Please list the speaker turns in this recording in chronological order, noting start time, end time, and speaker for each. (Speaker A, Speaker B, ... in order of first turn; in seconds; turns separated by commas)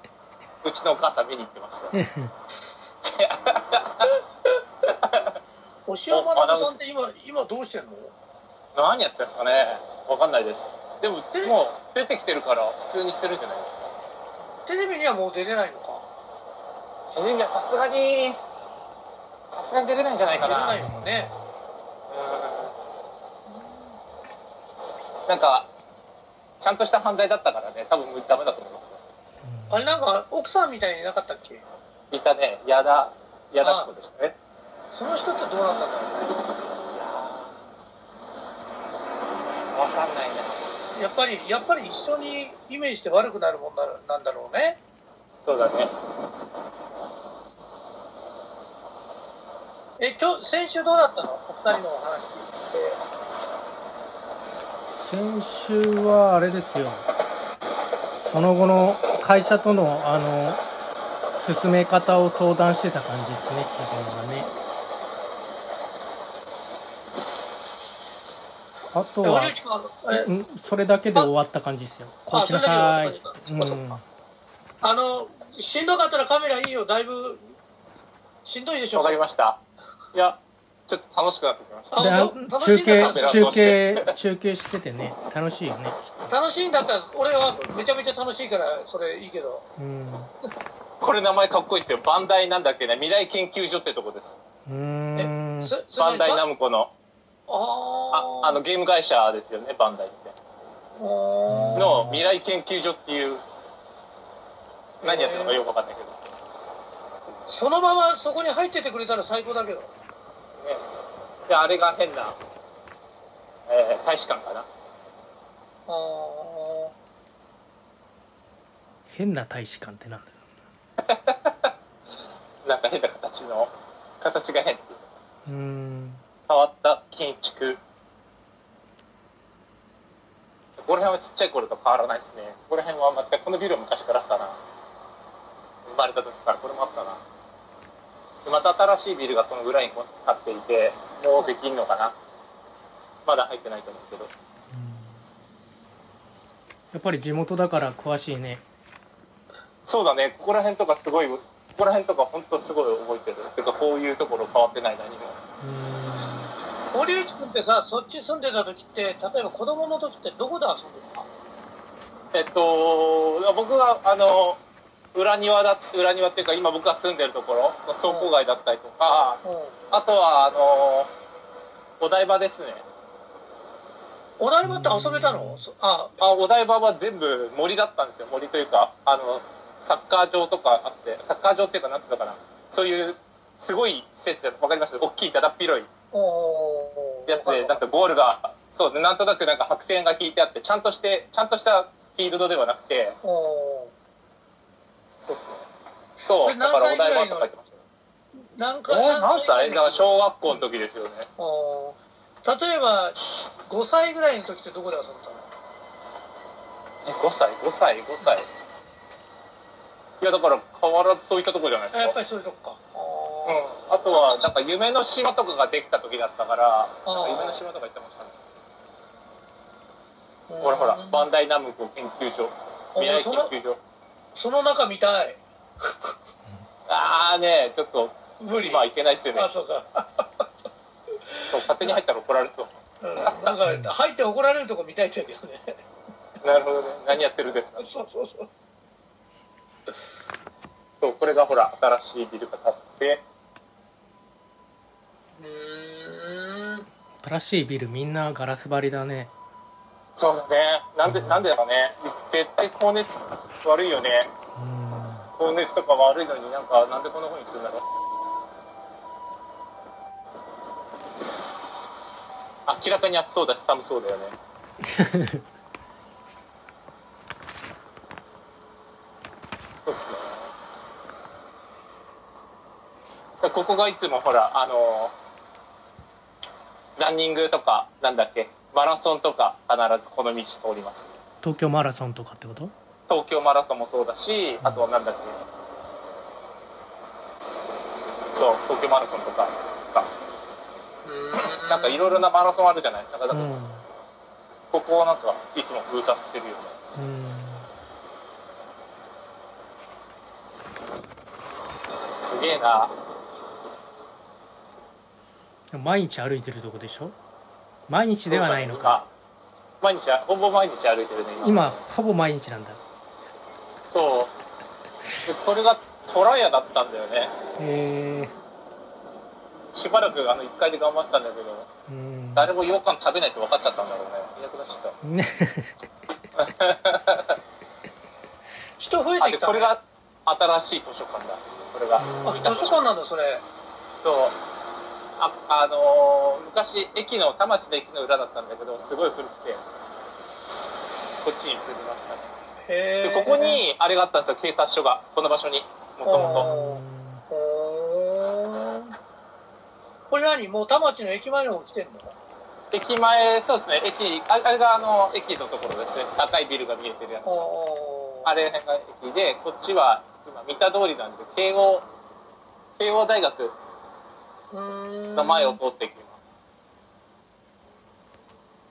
Speaker A: 0.6-1.9, Speaker B: 1.9-2.3, Speaker A: 3.0-4.1, Speaker A: 4.9-5.4, Speaker C: 5.9-8.1, Speaker A: 6.1-6.8, Speaker A: 8.7-13.9, Speaker C: 14.7-16.1, Speaker A: 17.1-18.4, Speaker A: 19.5-20.8, Speaker C: 20.4-21.3, Speaker B: 20.8-21.4, Speaker A: 22.1-22.7, Speaker A: 25.2-25.7, Speaker A: 26.6-29.0, Speaker B: 29.4-30.0, Speaker C: 29.7-31.6, Speaker A: 32.1-34.4, Speaker C: 33.6-33.9, Speaker C: 34.9-36.3, Speaker A: 36.9-37.6, Speaker A: 39.7-40.7, Speaker C: 41.0-44.8, Speaker A: 45.4-45.9, Speaker C: 50.0-53.0, Speaker B: 55.0-57.0, Speaker B: 58.3-60.6, Speaker B: 61.4-64.5, Speaker B: 68.9-69.5, Speaker C: 69.2-70.3, Speaker B: 70.1-74.0, Speaker C: 72.3-73.8, Speaker C: 74.8-77.5, Speaker C: 78.4-79.2, Speaker A: 78.9-79.6, Speaker A: 80.1-82.2, Speaker C: 81.9-83.6, Speaker B: 82.0-86.3, Speaker A: 82.9-84.1, Speaker C: 86.3-89.6, Speaker B: 89.8-90.3, Speaker A: 91.0-94.4, Speaker B: 94.7-95.7, Speaker C: 95.2-96.4, Speaker A: 96.0-96.9, Speaker C: 97.5-98.6, Speaker A: 98.1-100.3, Speaker C: 101.0-102.1, Speaker B: 101.5-102.3, Speaker A: 101.7-103.4, Speaker C: 105.0-105.6, Speaker A: 105.0-106.2, Speaker C: 107.5-109.9, Speaker A: 111.5-112.4, Speaker A: 113.7-114.7, Speaker C: 115.9-116.9, Speaker B: 119.1-120.3, Speaker A: 121.0-121.7, Speaker A: 122.6-125.0, Speaker B: 125.5-126.2, Speaker A: 126.5-127.8, Speaker A: 130.8-134.6, Speaker A: 135.8-137.2, Speaker A: 138.4-142.2, Speaker A: 143.2-144.3, Speaker B: 144.7-145.2, Speaker B: 146.9-148.6, Speaker A: 149.9-155.4, Speaker B: 155.6-156.5, Speaker C: 156.9-161.3, Speaker A: 162.3-164.6, Speaker A: 165.1-171.1, Speaker C: 168.0-168.3, Speaker C: 169.4-169.8, Speaker A: 172.0-172.8, Speaker C: 174.4-176.1, Speaker B: 174.6-175.6, Speaker A: 176.2-185.9, Speaker C: 186.1-187.8, Speaker A: 187.3-193.2, Speaker C: 193.2-193.9, Speaker A: 195.2-195.7, Speaker A: 196.2-197.8, Speaker C: 196.3-197.5, Speaker C: 198.4-200.2, Speaker A: 198.9-201.3, Speaker C: 201.4-205.4, Speaker A: 207.0-208.5, Speaker A: 210.2-212.2, Speaker C: 211.9-214.5, Speaker A: 213.5-218.4, Speaker C: 217.1-217.6, Speaker C: 220.5-221.3, Speaker A: 220.6-223.8, Speaker C: 222.9-223.5, Speaker C: 224.3-226.1, Speaker A: 226.9-229.5, Speaker C: 228.4-230.4, Speaker C: 231.3-232.0, Speaker A: 231.5-232.7, Speaker C: 233.0-235.8, Speaker A: 233.2-233.5, Speaker B: 233.7-233.9, Speaker A: 236.4-237.8, Speaker C: 237.8-238.5, Speaker A: 241.0-243.2, Speaker C: 245.4-246.9, Speaker B: 247.2-249.3, Speaker A: 250.2-254.3, Speaker B: 251.0-251.4, Speaker B: 254.6-255.3, Speaker A: 255.4-257.8, Speaker A: 262.6-264.3, Speaker B: 264.8-265.4, Speaker A: 269.8-270.5, Speaker A: 273.4-275.1, Speaker A: 277.0-281.2, Speaker B: 281.4-282.7, Speaker A: 283.1-285.4, Speaker A: 288.3-290.1, Speaker C: 291.0-292.2, Speaker A: 291.7-293.5, Speaker B: 293.3-293.8, Speaker A: 294.7-296.8, Speaker B: 296.9-297.6, Speaker A: 302.1-302.9, Speaker B: 305.7-307.1, Speaker B: 307.9-309.0, Speaker A: 308.3-309.1, Speaker A: 309.8-311.8, Speaker B: 311.4-312.8, Speaker A: 313.9-314.3, Speaker A: 315.2-317.4, Speaker B: 317.6-318.3, Speaker A: 319.7-321.7, Speaker B: 321.9-322.5, Speaker A: 322.3-324.9, Speaker B: 325.0-325.7, Speaker A: 326.3-327.4, Speaker C: 328.8-329.7, Speaker A: 329.2-332.7, Speaker B: 332.0-332.7, Speaker C: 332.2-333.4, Speaker A: 334.0-334.4, Speaker A: 335.2-339.6, Speaker A: 341.2-342.3, Speaker C: 342.7-343.6, Speaker A: 343.0-346.5, Speaker C: 346.0-348.9, Speaker B: 346.1-347.2, Speaker C: 350.1-352.1, Speaker A: 352.7-357.4, Speaker C: 357.2-358.3, Speaker A: 358.2-361.9, Speaker A: 362.8-363.5, Speaker C: 364.5-365.6, Speaker A: 365.1-366.2